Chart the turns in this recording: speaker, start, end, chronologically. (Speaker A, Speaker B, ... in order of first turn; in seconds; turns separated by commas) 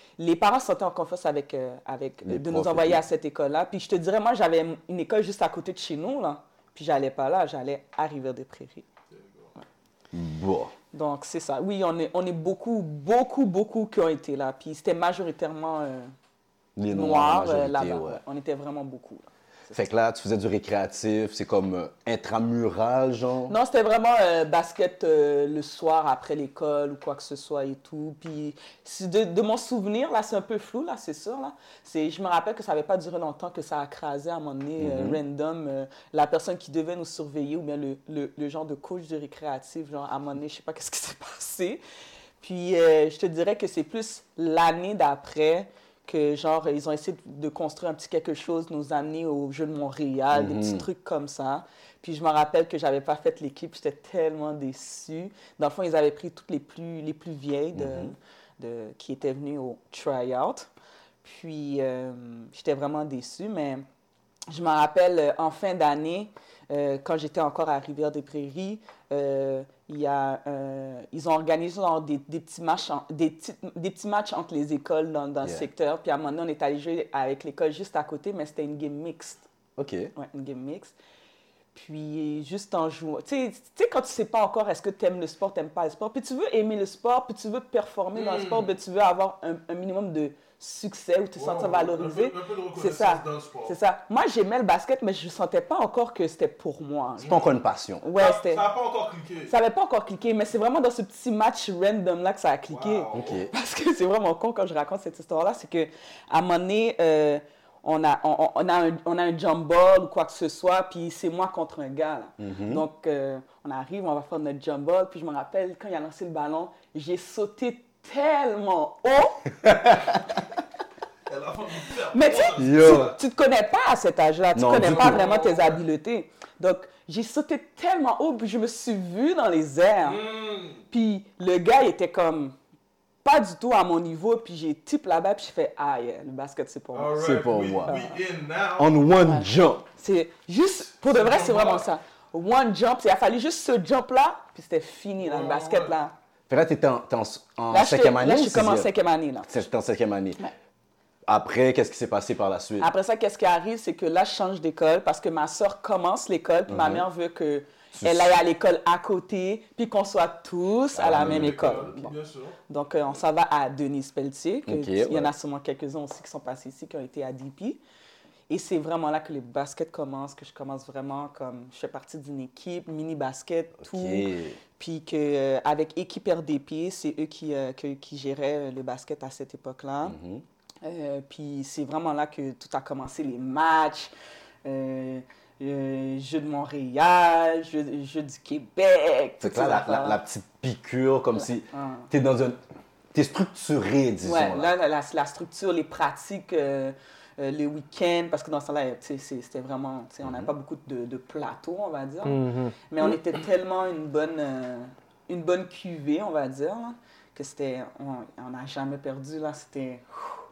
Speaker A: 0.2-8.8, Speaker B: 2.2-3.0, Speaker C: 9.1-9.5, Speaker B: 10.1-10.7, Speaker A: 10.9-16.1, Speaker B: 16.8-18.2, Speaker A: 16.9-19.9, Speaker B: 19.8-23.6, Speaker A: 23.5-41.8, Speaker B: 34.8-35.2, Speaker A: 42.4-60.7, Speaker B: 50.3-50.9, Speaker B: 57.8-58.1, Speaker A: 61.2-63.9, Speaker A: 64.5-79.5, Speaker B: 79.8-80.1, Speaker A: 80.2-81.0, Speaker A: 81.7-97.4, Speaker C: 88.1-88.7, Speaker C: 91.4-93.8, Speaker C: 97.2-97.5, Speaker B: 97.2-98.0, Speaker A: 98.0-98.7, Speaker C: 98.2-99.5, Speaker A: 99.5-119.5, Speaker C: 102.7-103.4, Speaker B: 103.2-103.5, Speaker B: 112.4-112.8, Speaker B: 119.7-120.2, Speaker C: 121.3-123.2, Speaker A: 122.1-130.2, Speaker B: 122.6-123.1, Speaker B: 124.5-125.2, Speaker C: 124.8-125.8, Speaker C: 130.0-130.8, Speaker A: 130.9-132.6, Speaker A: 133.2-137.3, Speaker C: 136.9-138.9, Speaker B: 137.2-138.0, Speaker A: 137.8-138.2, Speaker B: 138.8-139.8, Speaker A: 139.2-146.1, Speaker C: 140.9-141.8, Speaker C: 145.2-145.9, Speaker B: 146.5-148.9, Speaker A: 147.7-149.5, Speaker B: 149.5-150.4, Speaker B: 151.3-152.9, Speaker A: 152.8-162.1, Speaker B: 156.7-157.1, Speaker B: 157.9-158.3, Speaker B: 160.9-162.0, Speaker C: 161.1-162.6, Speaker A: 162.7-167.8, Speaker B: 164.7-165.3, Speaker A: 168.5-180.2, Speaker B: 173.8-174.6, Speaker B: 180.1-180.4, Speaker A: 180.8-184.1, Speaker A: 184.7-190.2, Speaker B: 189.4-192.6, Speaker A: 191.4-192.1, Speaker B: 193.1-194.7, Speaker A: 194.2-210.3, Speaker B: 200.2-200.5, Speaker C: 202.2-202.8